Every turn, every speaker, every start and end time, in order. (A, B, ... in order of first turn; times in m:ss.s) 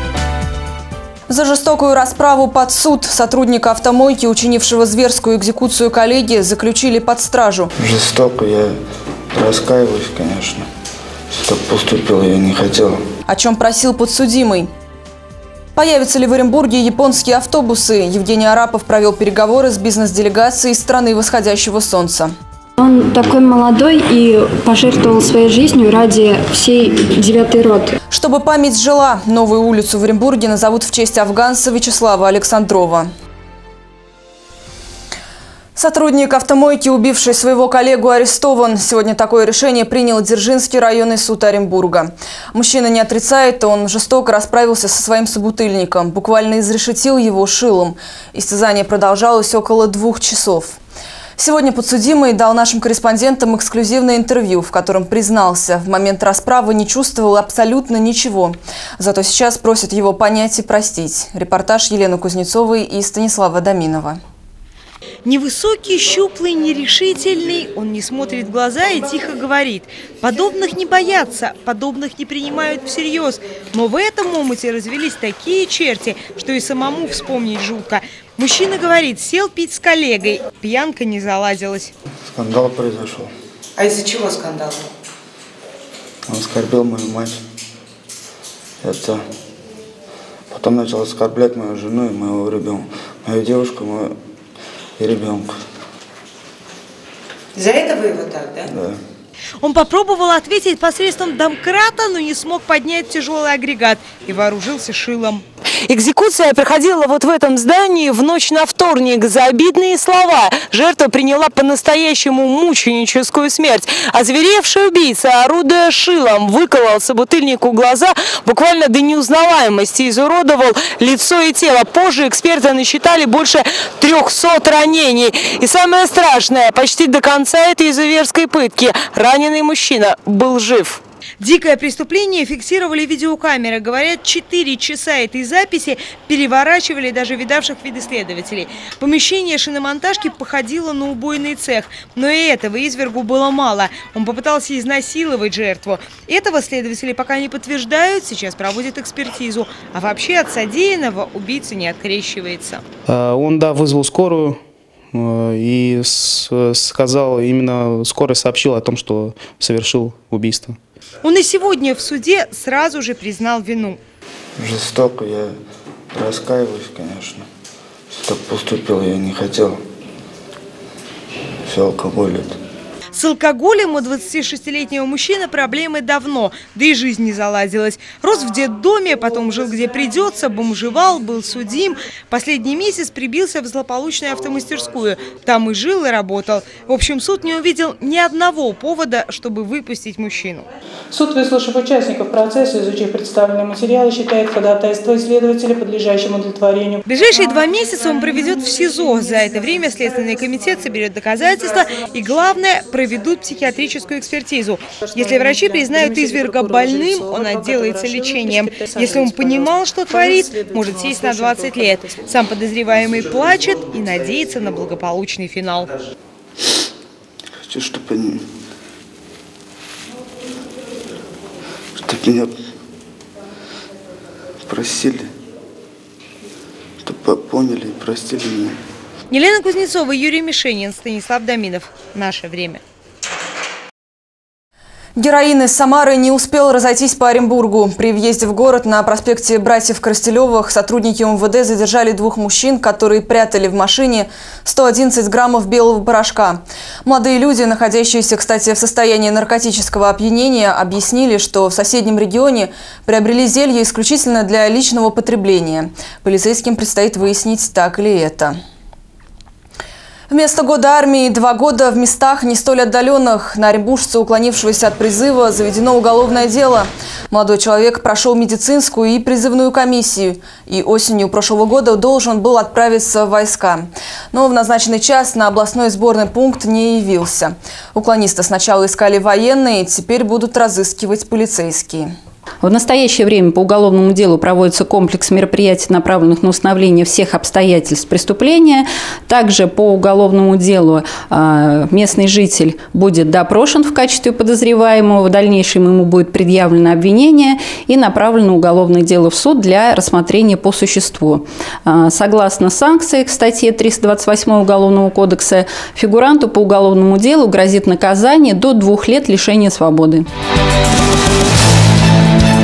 0:01.3-0:07.7 A
0:07.8-0:08.8 B
0:09.3-0:10.7 B
0:11.3-0:13.0 B
0:13.3-0:14.7 A
0:15.8-0:22.3 A
0:22.8-0:28.0 C
0:28.1-0:33.1 A
0:35.8-0:50.8 A
0:51.4-1:04.2 A
1:05.2-1:21.9 D
1:22.2-1:23.3 B
1:26.3-1:27.4 B
1:28.8-1:29.2 B
1:30.5-1:34.1 B
1:35.0-1:35.6 B
1:38.6-1:39.0 B
1:39.6-2:32.8 D
2:33.1-2:34.6 E
2:35.1-2:40.8 E
2:41.2-2:44.0 D
2:44.6-2:45.6 B
2:46.1-2:47.4 B
2:48.1-2:49.8 B
2:51.6-2:52.6 B
2:53.1-3:10.6 D
3:11.1-3:17.0 F
3:17.0-3:35.9 D
3:25.0-3:32.2 F
3:37.6-3:38.4 B
3:42.0-3:42.5 B
3:44.6-3:45.3 B
3:47.0-3:48.8 B
3:49.3-3:52.8 D
3:55.2-4:18.6 A
4:20.3-4:42.1 A
4:42.6-5:10.2 G